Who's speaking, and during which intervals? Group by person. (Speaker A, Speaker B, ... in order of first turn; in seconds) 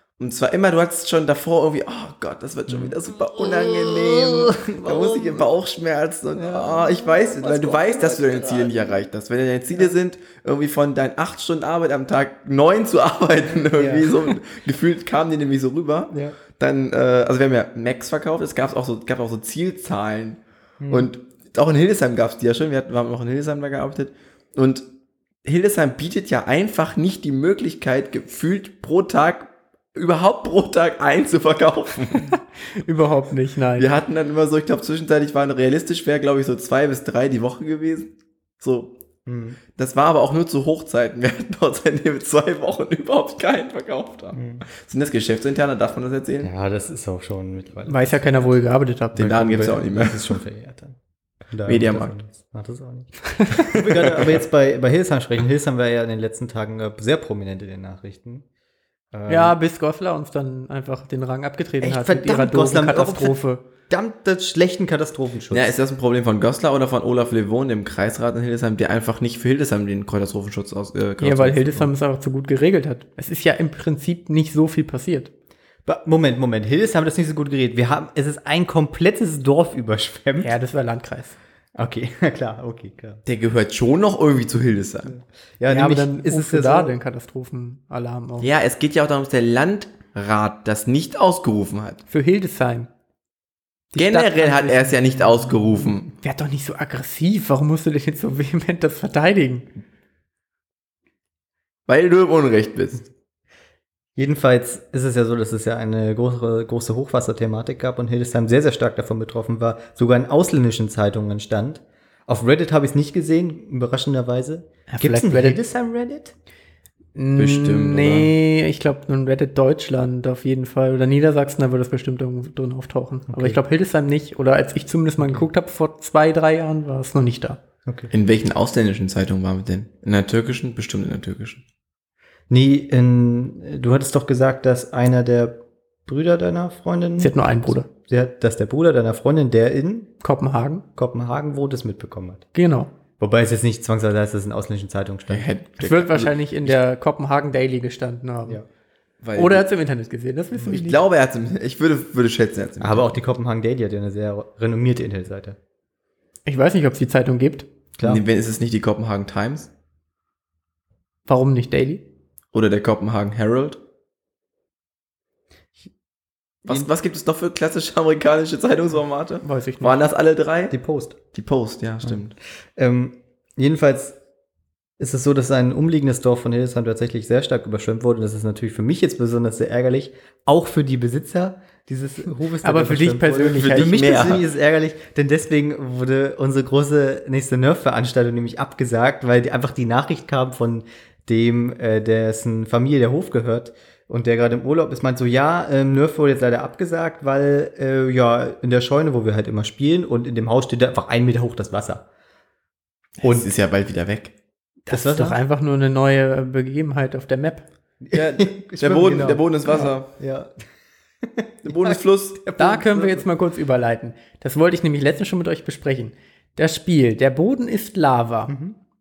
Speaker A: 0.2-24.9, 25.4-32.3, 33.8-39.0, 39.8-46.5, 49.2-50.4, 51.7-52.1, 53.6-54.4, 65.5-71.9, 83.3-85.1, 88.4-92.0, 94.0-96.1, 101.9-103.0, 117.4-118.3, 128.1-131.6, 145.3-146.8, 149.2-149.7, 150.7-153.2, 158.0-159.7, 162.5-163.8, 166.7-170.7, 171.3-172.3, 183.5-184.4, 203.2-204.3, 208.1-210.1, 211.6-212.4
Speaker B: 2.7-5.5, 6.3-9.0, 13.7-14.1, 16.1-16.4, 20.8-21.1, 39.3-39.6, 44.3-44.6, 46.4-48.1, 49.1-51.0, 51.5-58.4, 59.1-59.6, 61.8-65.7, 75.9-80.5, 81.8-83.2, 85.1-87.0, 95.4-95.8, 104.2-116.3, 123.3-123.6, 125.2-125.5, 132.5-140.1, 141.0-142.5, 143.2-145.5, 152.8-155.6, 170.7-171.2, 172.8-174.2, 175.0-202.0, 203.2-203.5, 204.9-205.4, 208.0-210.5, 211.2-213.2, 218.5-218.8
Speaker C: 32.3-34.0, 47.9-49.3, 59.3-63.6, 71.2-75.3, 80.4-81.4, 85.7-88.5, 92.1-92.9, 93.9-95.0, 96.2-99.7, 114.9-115.6, 117.2-127.6, 137.2-137.9, 140.2-140.8, 142.6-142.9, 145.8-148.6, 149.3-151.0, 156.5-157.7, 161.3-162.0, 169.4-170.0, 182.6-184.3, 204.9-207.7, 212.6-218.5